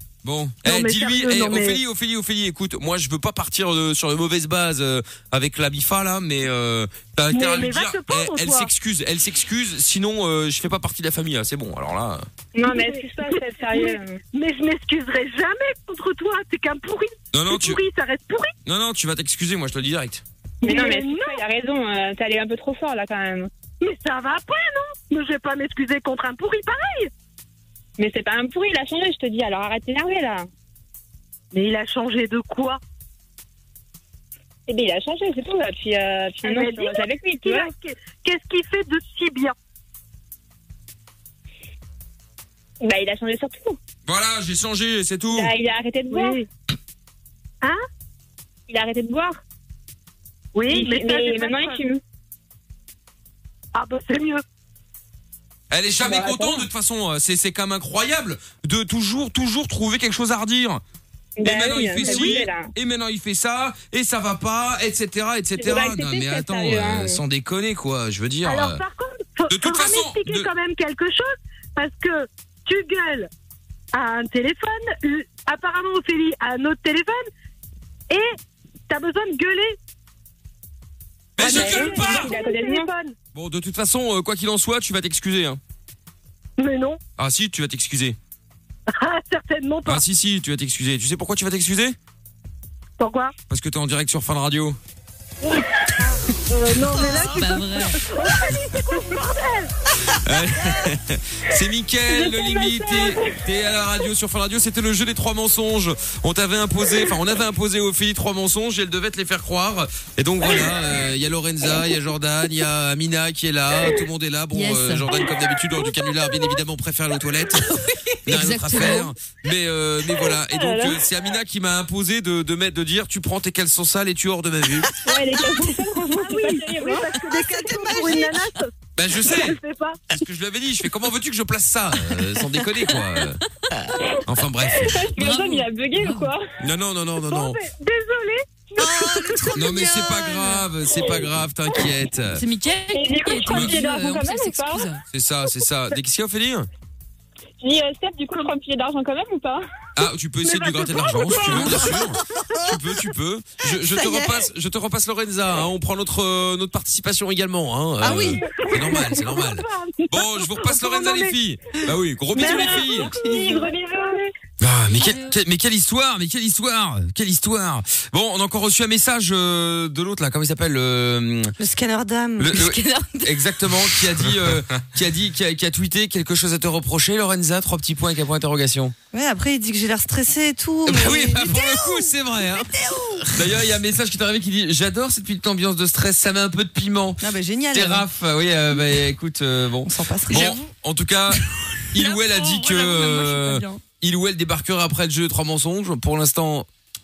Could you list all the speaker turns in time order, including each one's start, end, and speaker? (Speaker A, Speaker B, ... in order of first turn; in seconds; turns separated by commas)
Speaker A: 0.2-12.3, Speaker B: 0.6-1.8, Speaker B: 7.3-8.7, Speaker C: 12.6-14.2, Speaker B: 12.7-18.5, Speaker A: 17.3-17.8, Speaker A: 18.6-20.2, Speaker C: 20.6-23.5, Speaker B: 20.6-21.4, Speaker B: 23.8-27.1, Speaker C: 28.0-30.5, Speaker B: 31.5-32.8, Speaker C: 34.7-37.7, Speaker B: 36.4-39.5, Speaker C: 42.8-43.8, Speaker A: 44.1-45.5, Speaker C: 45.3-46.4, Speaker B: 46.1-46.5, Speaker C: 48.7-49.4, Speaker B: 50.5-51.8, Speaker C: 50.7-52.0, Speaker B: 53.7-54.4, Speaker A: 55.7-60.8, Speaker C: 56.0-56.6, Speaker C: 61.4-62.7, Speaker A: 61.4-68.8, Speaker B: 62.0-62.3, Speaker C: 65.6-67.2, Speaker B: 68.5-73.3, Speaker A: 69.5-70.5, Speaker B: 73.9-77.2, Speaker B: 78.1-78.4, Speaker B: 78.9-79.8, Speaker A: 81.4-82.3, Speaker B: 81.4-83.2, Speaker C: 81.4-82.9, Speaker A: 83.3-85.6, Speaker B: 86.6-87.0, Speaker A: 87.2-88.2, Speaker B: 88.9-90.0, Speaker A: 89.8-92.0, Speaker B: 93.0-93.3, Speaker A: 93.5-94.8, Speaker B: 95.4-99.7, Speaker D: 96.9-97.5, Speaker E: 97.3-98.0, Speaker A: 100.1-124.9, Speaker B: 102.2-103.1, Speaker E: 114.5-115.1, Speaker E: 118.3-119.1, Speaker C: 120.4-121.0, Speaker C: 125.0-127.1, Speaker B: 126.2-130.1, Speaker D: 127.2-128.4, Speaker A: 128.9-129.6, Speaker A: 130.1-133.4, Speaker C: 134.1-136.4, Speaker A: 134.2-135.1, Speaker E: 135.2-136.3, Speaker A: 136.6-137.6, Speaker B: 137.2-139.7, Speaker D: 138.8-141.2, Speaker A: 139.6-142.4, Speaker E: 142.3-145.0, Speaker C: 142.9-144.9, Speaker A: 143.5-143.8, Speaker A: 145.1-146.7, Speaker C: 147.6-149.7, Speaker A: 150.0-163.1, Speaker B: 150.4-152.2, Speaker E: 151.4-151.9, Speaker D: 152.1-152.7, Speaker D: 153.6-154.4, Speaker D: 158.0-159.2, Speaker B: 158.5-161.3, Speaker B: 162.3-164.3, Speaker C: 162.4-163.8, Speaker A: 164.6-171.6, Speaker E: 164.9-165.4, Speaker D: 171.6-172.5, Speaker A: 172.4-178.9, Speaker E: 172.5-173.5, Speaker D: 179.1-183.4, Speaker A: 180.9-182.7, Speaker A: 183.3-196.7, Speaker D: 187.2-188.1, Speaker D: 189.9-190.7, Speaker E: 191.9-193.8